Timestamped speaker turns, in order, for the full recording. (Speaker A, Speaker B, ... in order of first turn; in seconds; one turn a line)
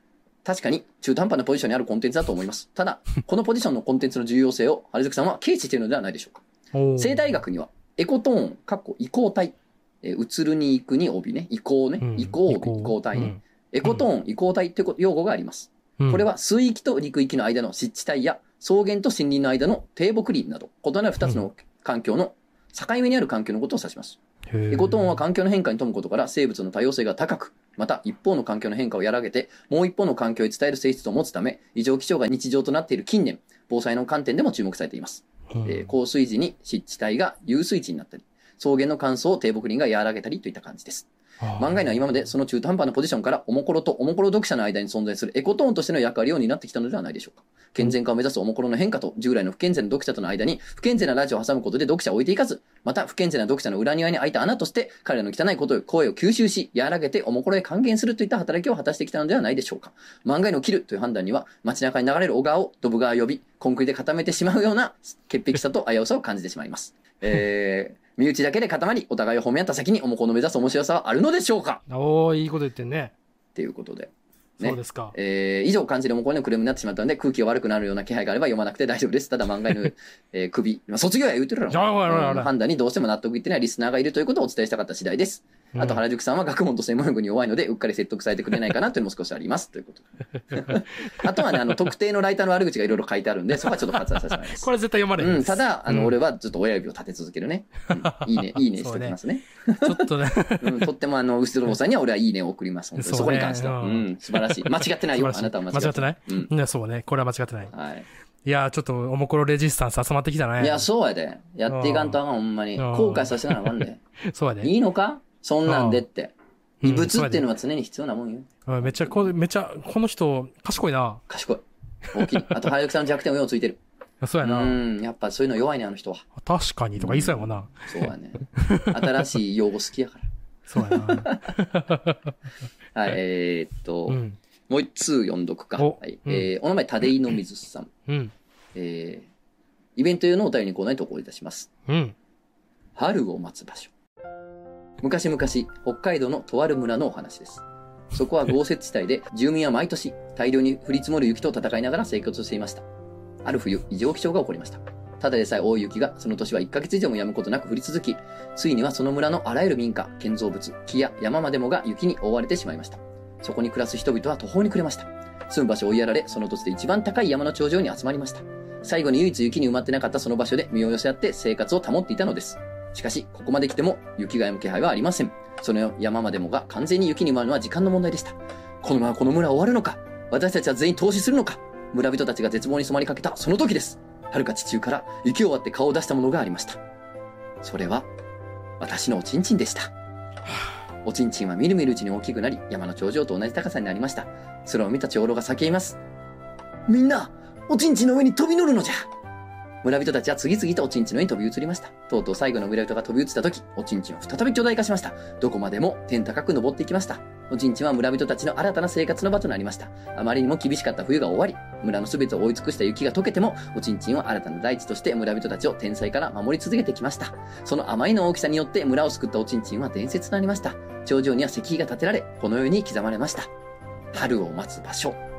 Speaker A: 0.5-6.4
Speaker B: 6.7-7.3
Speaker A: 7.0-24.2
Speaker B: 12.0-14.1
Speaker B: 16.0-16.2
Speaker B: 24.5-25.1
Speaker A: 24.7-71.8
Speaker B: 35.5-35.9
Speaker B: 41.4-41.9
Speaker B: 71.9-73.1
Speaker A: 73.5-106.5
Speaker B: 74.6-75.1
Speaker B: 81.7-82.5
Speaker B: 85.7-86.0
Speaker B: 90.5-91.7
Speaker B: 93.6-96.2
Speaker B: 97.9-99.2
Speaker B: 99.7-100.9
Speaker B: 103.0-107.7
Speaker A: 107.7-108.1
Speaker B: 108.5-110.9
Speaker A: 110.6-114.0
Speaker B: 111.7-112.2
Speaker B: 112.8-114.7
Speaker A: 114.6-119.3
Speaker B: 115.6-116.0
Speaker B: 116.8-117.5
Speaker B: 118.7-121.2
Speaker A: 121.3-123.8
Speaker B: 122.2-122.5
Speaker B: 124.2-124.8
Speaker A: 124.4-126.3
Speaker B: 126.4-128.0
Speaker A: 127.0-130.3
Speaker B: 128.5-129.3
Speaker B: 130.7-132.3
Speaker A: 130.8-131.5
Speaker A: 132.9-137.9
Speaker B: 134.1-134.4
Speaker B: 135.8-136.5
Speaker B: 138.1-138.3
Speaker A: 138.7-139.3
Speaker A: 139.9-141.7
Speaker B: 141.9-142.1
Speaker A: 142.9-143.9
Speaker A: 145.0-152.8
Speaker A: 153.4-186.8
Speaker A: 187.6-188.1
Speaker A: 188.8-189.9
Speaker A: 191.0-196.0
Speaker A: 196.9-199.1
Speaker A: 199.8-223.5
Speaker A: 224.1-225.2